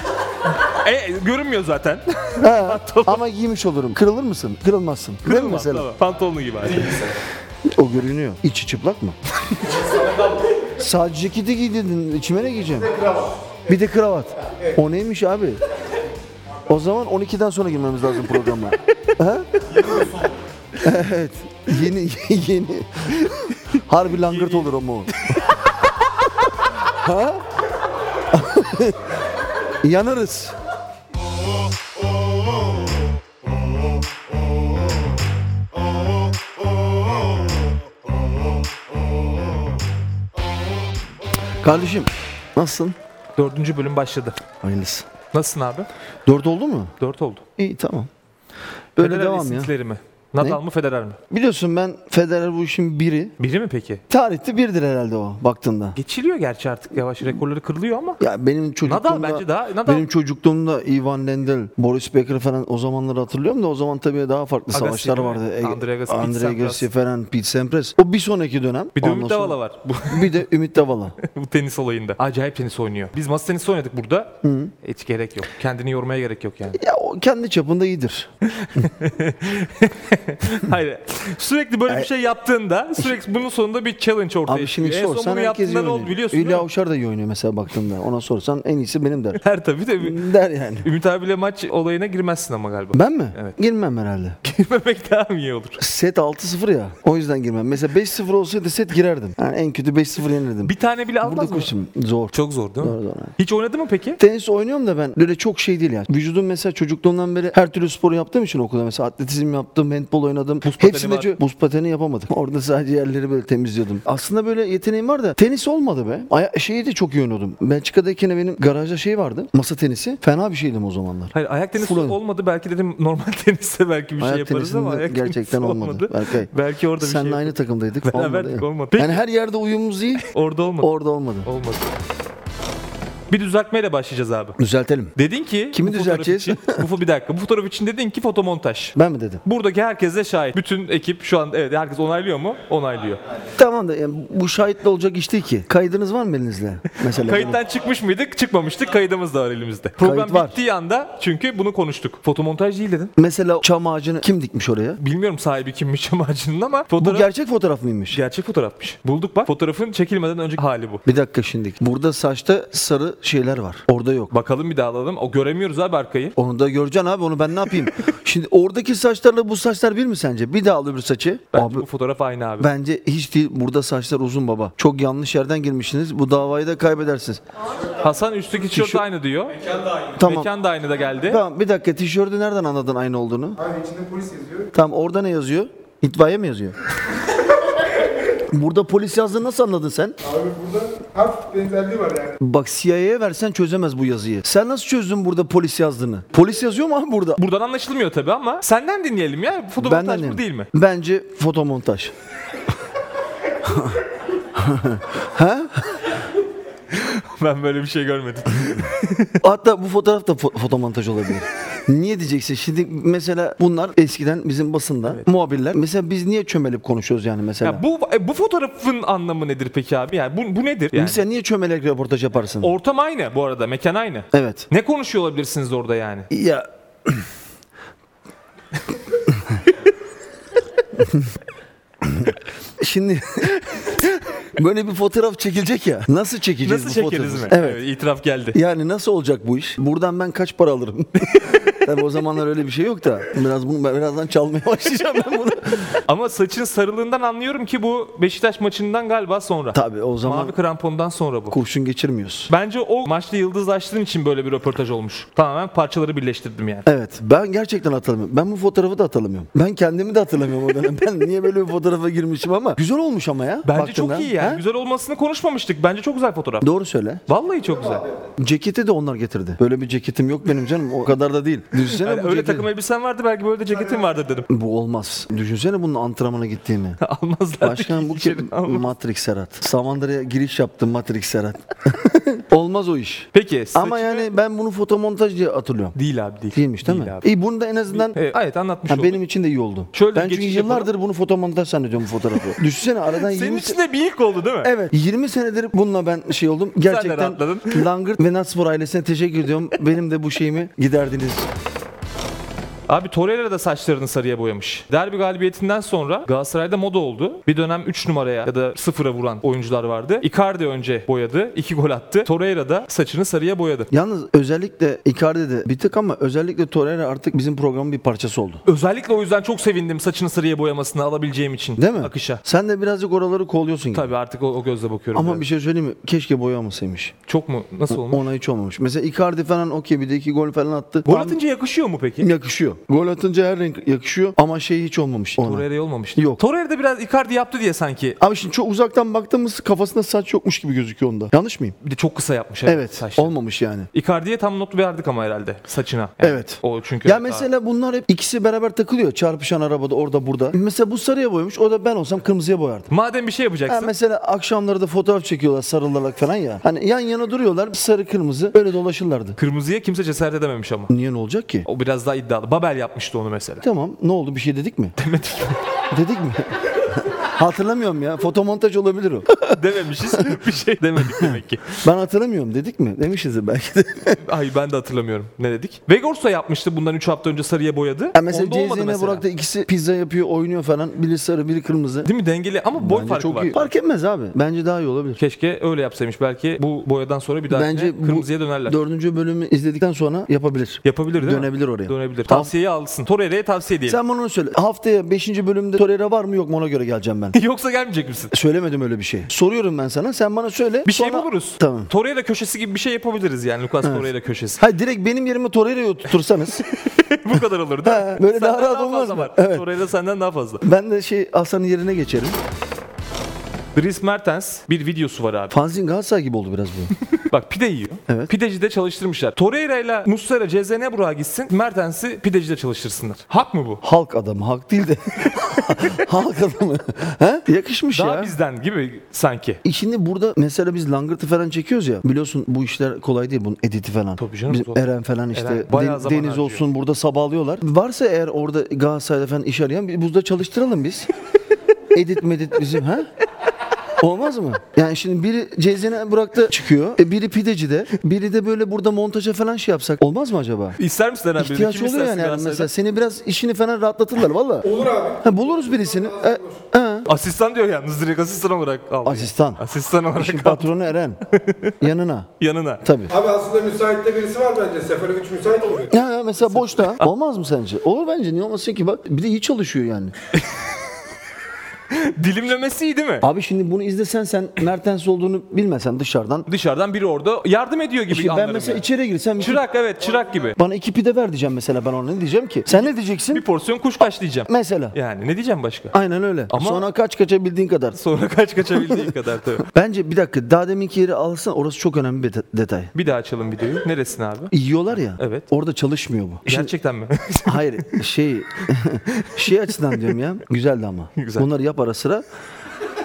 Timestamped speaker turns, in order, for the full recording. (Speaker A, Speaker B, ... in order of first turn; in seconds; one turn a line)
Speaker A: 0.7-3.2
Speaker B: 2.4-5.9
Speaker A: 5.2-7.1
Speaker B: 7.7-9.2
Speaker C: 9.7-10.2
Speaker B: 10.8-12.9
Speaker C: 12.9-13.3
Speaker B: 13.7-15.6
Speaker B: 16.7-19.7
Speaker B: 20.8-25.4
Speaker A: 24.2-24.7
Speaker B: 26.8-27.4
Speaker B: 28.3-29.0
Speaker B: 29.8-30.5
Speaker B: 41.6-42.9
Speaker A: 43.4-44.4
Speaker B: 44.6-45.1
Speaker A: 45.3-45.9
Speaker B: 46.3-46.9
Speaker A: 47.0-47.4
Speaker B: 47.6-48.1
Speaker B: 49.0-49.7
Speaker A: 49.0-51.2
Speaker B: 51.3-53.3
Speaker A: 53.4-54.0
Speaker B: 54.1-56.0
Speaker A: 56.0-58.2
Speaker B: 58.2-71.2
Speaker A: 58.8-60.1
Speaker A: 64.7-66.9
Speaker A: 69.0-70.5
Speaker A: 71.2-76.8
Speaker B: 74.4-74.7
Speaker B: 76.7-78.9
Speaker A: 78.4-86.7
Speaker B: 84.5-89.4
Speaker A: 89.3-90.2
Speaker B: 90.0-90.9
Speaker A: 90.8-93.5
Speaker B: 92.9-94.4
Speaker A: 94.4-95.8
Speaker B: 95.8-103.3
Speaker A: 100.6-101.7
Speaker A: 102.3-104.2
Speaker B: 104.2-122.2
Speaker A: 110.6-111.4
Speaker A: 121.3-129.2
Speaker B: 124.2-130.3
Speaker A: 130.2-130.9
Speaker B: 130.8-131.5
Speaker A: 131.4-131.9
Speaker A: 133.3-134.6
Speaker B: 134.6-135.1
Speaker A: 135.2-143.2
Speaker B: 135.7-136.8
Speaker B: 138.9-139.4
Speaker B: 143.6-147.6
Speaker A: 147.0-153.1
Speaker B: 150.0-150.6
Speaker B: 153.2-155.0
Speaker A: 155.0-157.3
Speaker B: 157.0-158.2
Speaker A: 158.1-161.0
Speaker B: 161.0-164.3
Speaker A: 164.3-166.3
Speaker B: 166.3-171.8
Speaker A: 171.5-172.7
Speaker B: 172.6-177.4
Speaker A: 178.0-181.4
Speaker B: 178.7-179.0
Speaker B: 180.2-180.5
Speaker B: 181.2-183.6
Speaker C: 183.6-184.7
Speaker B: 184.7-186.7
Speaker B: 188.5-190.2
Speaker C: 190.2-192.4
Speaker B: 192.4-197.4
Speaker A: 197.4-200.7
Speaker B: 199.8-202.1
Speaker B: 203.6-204.0
Speaker B: 204.6-206.0
Speaker A: 206.9-209.4
Speaker B: 209.4-217.8
Speaker A: 217.6-221.2
Speaker B: 220.9-222.7
Speaker A: 222.6-226.3
Speaker B: 224.3-224.7
Speaker B: 226.3-227.2
Speaker B: 231.0-231.3
Speaker B: 232.0-233.9
Speaker B: 234.5-237.8
Speaker A: 236.6-238.6
Speaker B: 238.5-246.0
Speaker A: 241.3-241.6
Speaker A: 246.1-251.6
Speaker B: 249.7-250.5
Speaker B: 251.5-252.5
Speaker A: 252.5-256.8
Speaker B: 256.8-264.6
Speaker A: 263.6-266.7
Speaker B: 266.6-267.2
Speaker A: 267.3-268.1
Speaker B: 268.4-272.7
Speaker A: 271.8-274.5
Speaker B: 274.5-277.0
Speaker A: 277.0-278.9
Speaker B: 277.6-285.9
Speaker A: 283.3-284.3
Speaker A: 285.9-287.3
Speaker B: 286.5-288.2
Speaker A: 287.9-289.2
Speaker B: 288.9-293.8
Speaker A: 289.9-290.9
Speaker A: 293.1-294.7
Speaker B: 294.6-301.5
Speaker A: 296.8-297.9
Speaker A: 302.9-313.9
Speaker B: 313.9-318.6
Speaker A: 318.6-322.4
Speaker B: 321.8-324.1
Speaker A: 323.9-325.4
Speaker B: 325.1-327.1
Speaker A: 327.3-328.3
Speaker B: 327.9-331.4
Speaker A: 331.1-332.3
Speaker B: 332.2-335.6
Speaker A: 335.4-338.2
Speaker B: 336.1-336.4
Speaker B: 338.2-341.8
Speaker A: 341.8-343.3
Speaker B: 342.6-343.9
Speaker A: 343.9-347.5
Speaker B: 346.2-352.9
Speaker A: 352.9-353.9
Speaker B: 353.6-359.4
Speaker A: 359.4-360.9
Speaker B: 360.9-361.6
Speaker A: 361.6-363.6
Speaker B: 363.6-364.9
Speaker A: 364.9-365.7
Speaker B: 365.9-369.6
Speaker A: 369.5-371.8
Speaker B: 371.1-374.2
Speaker A: 374.2-379.2
Speaker B: 378.1-382.1
Speaker A: 382.0-383.7
Speaker B: 382.7-385.2
Speaker A: 385.2-388.8
Speaker B: 387.5-392.5
Speaker A: 390.8-394.0
Speaker B: 393.9-397.4
Speaker A: 397.3-398.3
Speaker B: 398.3-401.9
Speaker A: 400.8-404.6
Speaker B: 403.8-406.6
Speaker A: 406.4-410.6
Speaker B: 407.8-409.6
Speaker B: 410.6-412.4
Speaker A: 413.7-415.6
Speaker B: 415.5-416.9
Speaker A: 417.1-423.8
Speaker B: 423.8-428.3
Speaker A: 427.9-429.6
Speaker B: 429.6-441.1
Speaker A: 434.2-436.6
Speaker B: 441.9-443.1
Speaker B: 444.0-450.8
Speaker A: 450.8-452.7
Speaker B: 451.4-454.7
Speaker C: 454.6-456.6
Speaker B: 455.2-457.1
Speaker A: 457.1-462.8
Speaker B: 459.0-459.6
Speaker B: 460.1-461.2
Speaker B: 461.8-462.3
Speaker B: 462.8-463.1
Speaker C: 463.1-465.9
Speaker B: 465.9-470.1
Speaker A: 466.4-467.1
Speaker A: 470.3-470.6
Speaker A: 471.9-473.2
Speaker B: 473.2-476.5
Speaker A: 476.5-478.8
Speaker B: 478.1-479.6
Speaker A: 479.4-480.6
Speaker B: 480.6-483.4
Speaker A: 482.7-485.9
Speaker B: 484.5-484.9
Speaker B: 485.9-488.0
Speaker A: 486.5-486.8
Speaker A: 487.9-489.6
Speaker B: 489.6-492.9
Speaker A: 492.9-494.5
Speaker B: 494.5-496.7
Speaker A: 495.2-495.5
Speaker A: 496.5-497.8
Speaker B: 497.4-502.2
Speaker A: 501.2-501.5